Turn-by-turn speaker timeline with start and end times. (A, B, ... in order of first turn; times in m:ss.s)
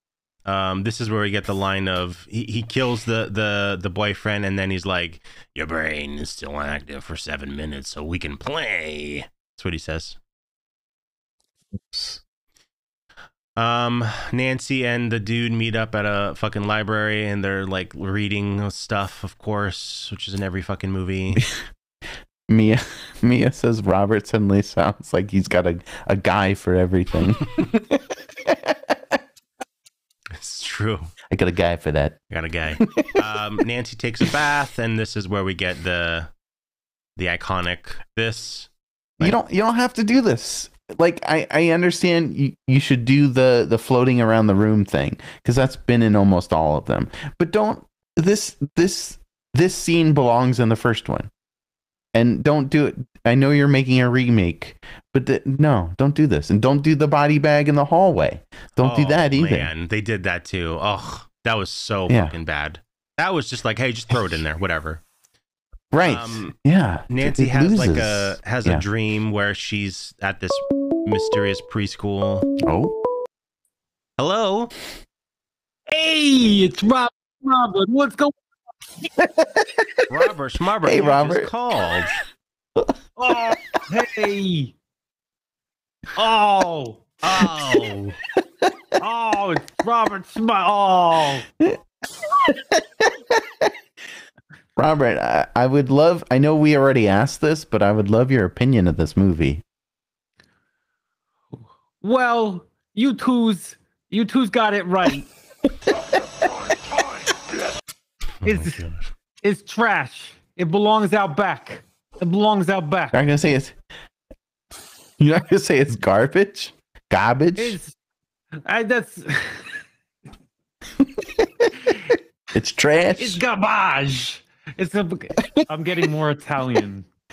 0:00.5-0:10.2 A
0:13.6-0:21.5 A
0:22.5-0:29.2 B
0:30.3-0:31.1 A
0:31.3-0:32.2 B
0:32.3-0:36.3 A
0:32.8-0:33.2 B
0:37.2-0:39.4 A
0:39.2-0:51.3 B
0:52.1-0:59.7 B
0:58.8-1:05.0 A
1:02.1-1:02.4 B
1:05.9-1:08.8 B
1:06.0-1:06.6 A
1:07.1-1:12.5 A
1:12.6-1:13.0 B
1:14.2-1:14.7 A
1:15.9-1:18.3 C
1:19.2-1:19.9 B
1:20.1-1:22.2 A
1:20.8-1:21.5 B
1:22.8-1:23.5 B
1:23.2-1:24.7 C
1:26.2-1:27.8 C
1:27.2-1:28.2 A
1:29.0-1:31.5 C
1:32.3-1:33.7 B
1:34.8-1:39.6 B
1:41.6-1:45.3 C
1:48.4-1:49.1 A
1:48.4-1:48.8 C
1:49.4-1:53.2 C
1:53.1-1:53.8 B
1:55.2-1:57.8 B
1:57.6-1:57.9 C
1:58.6-1:59.8 C
2:02.5-2:03.4 B
2:03.2-2:07.1 C